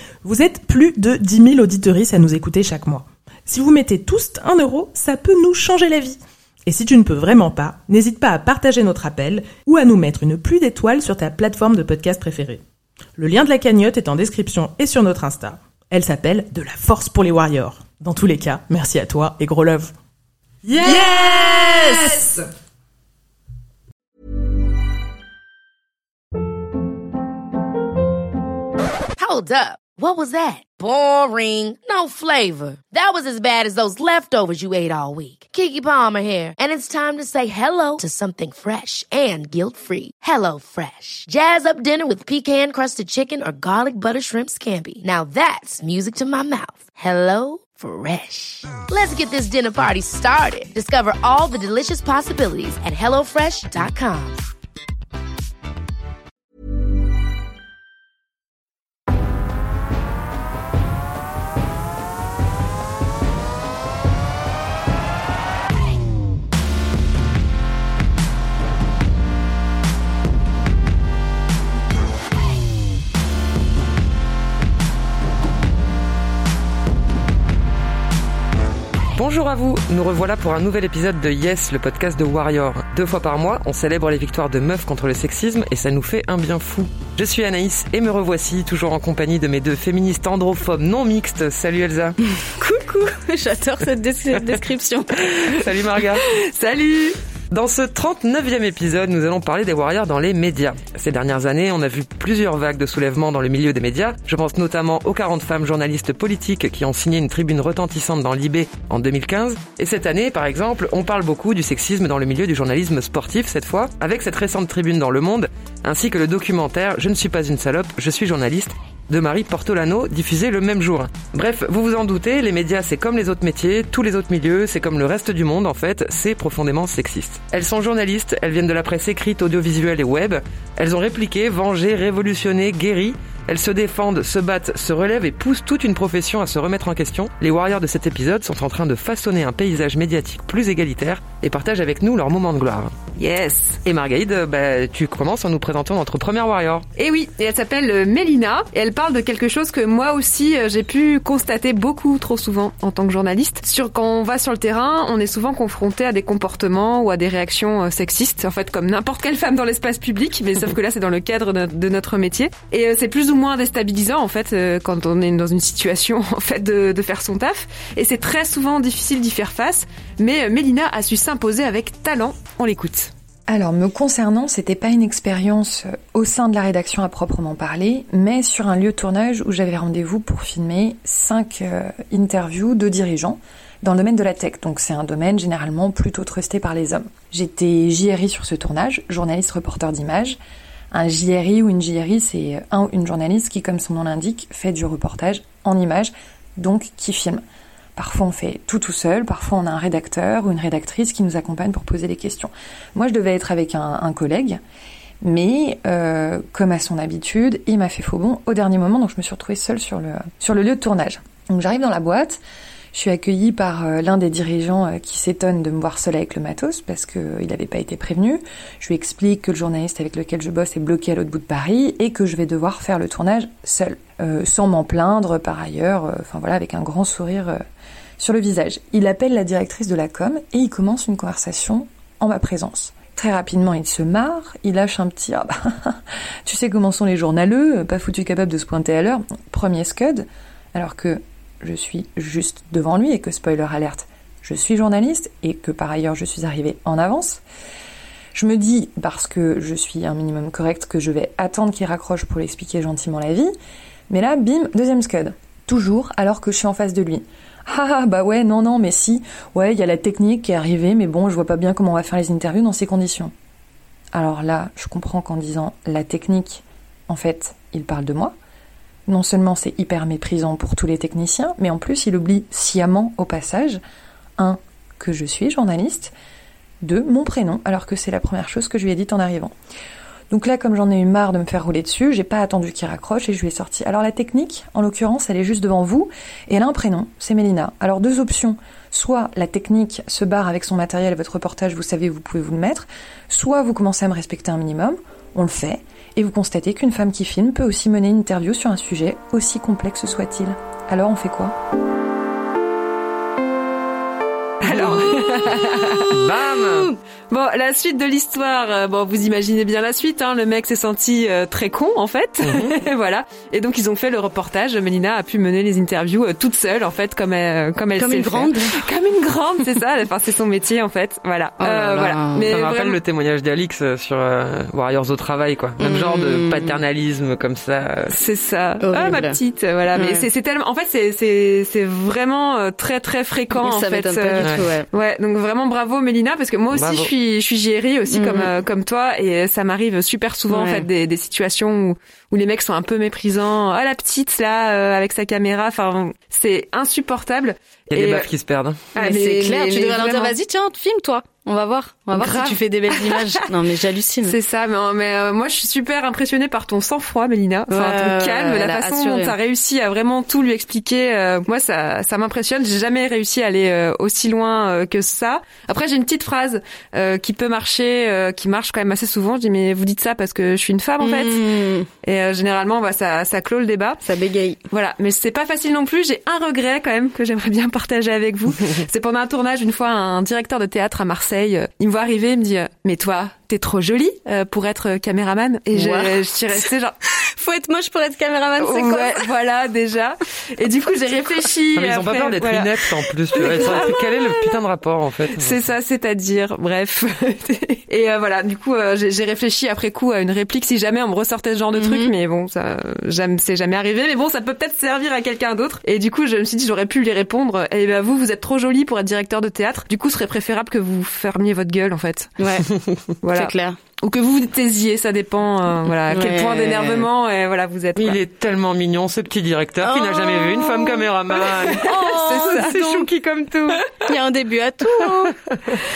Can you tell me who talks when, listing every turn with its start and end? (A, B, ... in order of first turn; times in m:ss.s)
0:00.2-0:12.6 A
0:13.2-0:19.9 A
0:20.6-0:22.3 A
0:20.8-0:22.3 B
0:29.2-0:54.4 C
1:19.2-1:32.2 D
1:32.6-1:35.5 E
1:35.3-1:36.2 D
1:36.4-1:37.2 B
1:37.5-2:22.9 D
2:23.2-2:23.8 B
2:23.8-2:26.8 D
2:27.0-2:53.1 B
2:53.5-3:10.4 F
3:10.9-3:17.4 F
3:18.0-3:24.6 F
3:25.2-3:32.4 F
3:32.9-3:47.6 F
3:48.2-4:07.4 F
4:08.3-4:13.5 F
4:14.1-4:23.3 F
4:24.1-4:28.3 F
4:29.1-4:33.8 F
4:34.4-4:36.1 F
4:36.8-4:39.5 F
4:40.3-5:01.6 F
5:04.6-5:06.2 B
5:04.7-5:05.0 D
5:06.1-5:06.9 D
5:07.3-5:23.0 B
5:12.4-5:12.8 D
5:18.0-5:18.8 E
5:21.6-5:22.4 E
5:22.4-5:28.1 D
5:25.8-5:26.8 E
5:28.1-5:48.3 B
5:28.8-5:29.4 E
5:29.9-5:30.3 E
5:33.5-5:34.9 E
5:36.7-5:37.1 D
5:38.1-5:38.5 E
5:40.5-5:40.9 E
5:47.9-5:48.8 D
5:48.9-5:50.4 B
5:48.9-5:54.4 E
5:52.1-5:53.3 B
5:54.2-6:11.4 B
5:57.7-5:59.3 E
6:11.0-6:11.9 E
6:12.0-6:14.0 B
6:14.0-6:14.6 E
6:14.7-6:26.9 B
6:25.7-6:26.1 E
6:27.3-6:29.3 E
6:28.6-6:34.4 B
6:31.7-6:35.6 D
6:35.3-6:52.3 B
6:41.8-6:42.1 E
6:52.4-6:52.7 E
6:53.2-6:58.2 B
6:53.3-6:53.8 E
6:56.1-6:57.0 E
6:57.9-7:03.8 D
6:59.8-7:01.0 E
7:01.7-7:03.1 B
7:01.8-7:02.8 E
7:04.0-7:05.3 E